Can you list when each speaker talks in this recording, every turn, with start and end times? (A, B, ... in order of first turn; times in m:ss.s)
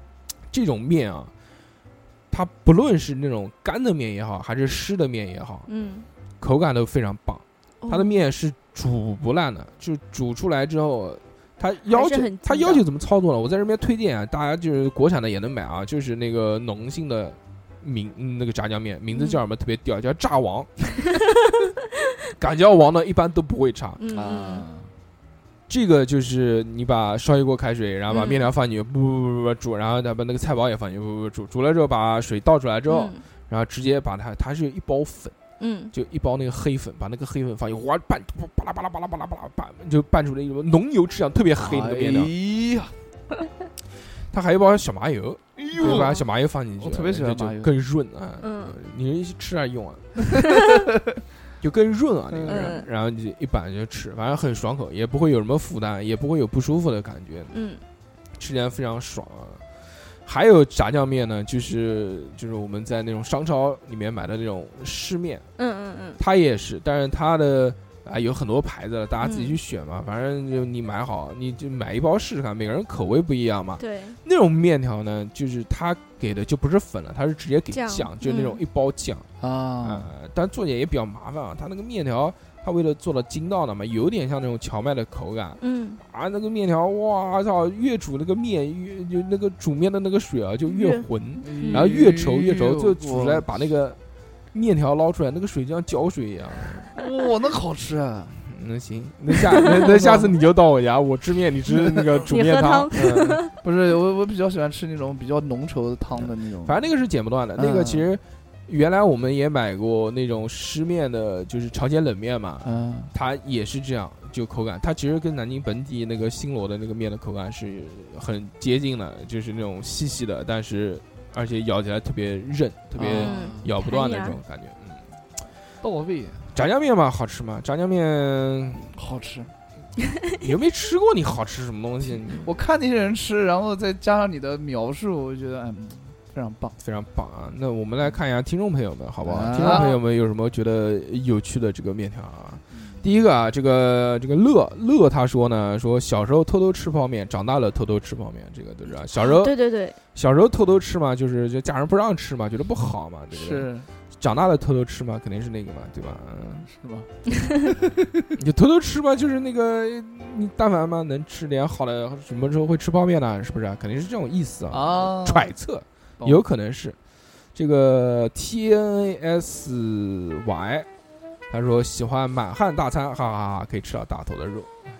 0:00.5-0:01.3 A
0:02.3-0:05.7 A
0:05.7-0:06.1 B
0:06.4-0:20.9 A
0:07.8-0:08.2 B
0:11.9-0:12.8 B
0:19.1-0:19.4 B
0:22.3-0:24.0 A
0:24.0-0:24.6 B
0:24.1-0:24.9 C
0:25.7-0:35.4 A
0:28.1-0:28.5 B
0:32.9-0:33.2 B
0:35.6-0:35.9 B
0:35.9-0:42.3 A
0:41.6-0:42.9 C
0:44.3-0:50.4 A
0:45.6-0:46.2 C
0:45.8-0:46.2 B
0:46.8-0:47.7 C
0:48.4-0:48.8 B
0:51.6-0:57.5 A
0:52.3-0:52.8 C
0:52.5-0:52.8 B
0:57.5-0:57.8 B
0:58.4-1:05.4 A
1:05.6-1:06.2 B
1:06.2-1:19.3 A
1:09.2-1:09.6 B
1:13.8-1:14.2 B
1:17.7-1:18.6 B
1:19.4-1:20.1 C
1:19.8-1:34.0 A
1:25.6-1:26.0 B
1:30.6-1:31.1 B
1:31.4-1:33.5 C
1:34.5-1:36.9 A
1:36.9-1:38.4 C
1:38.5-1:43.4 A
1:39.5-1:40.3 C
1:42.3-1:43.5 B
1:42.9-1:46.8 C
1:46.2-2:05.0 A
1:47.6-1:48.1 C
1:52.6-1:53.1 C
2:03.0-2:03.7 C
2:03.1-2:04.4 B
2:05.8-2:06.5 C
2:06.5-2:08.9 A
2:08.9-2:09.5 C
2:10.4-2:12.5 A
2:12.4-2:16.8 C
2:16.8-2:29.5 A
2:19.2-2:19.9 C
2:19.6-2:19.9 B
2:22.7-2:23.0 C
2:29.1-2:30.0 B
2:30.1-2:36.7 A
2:33.3-2:33.9 C
2:36.6-2:38.2 C
2:38.4-2:47.0 A
2:44.7-2:45.5 C
2:47.5-2:50.9 A
2:51.5-2:54.7 A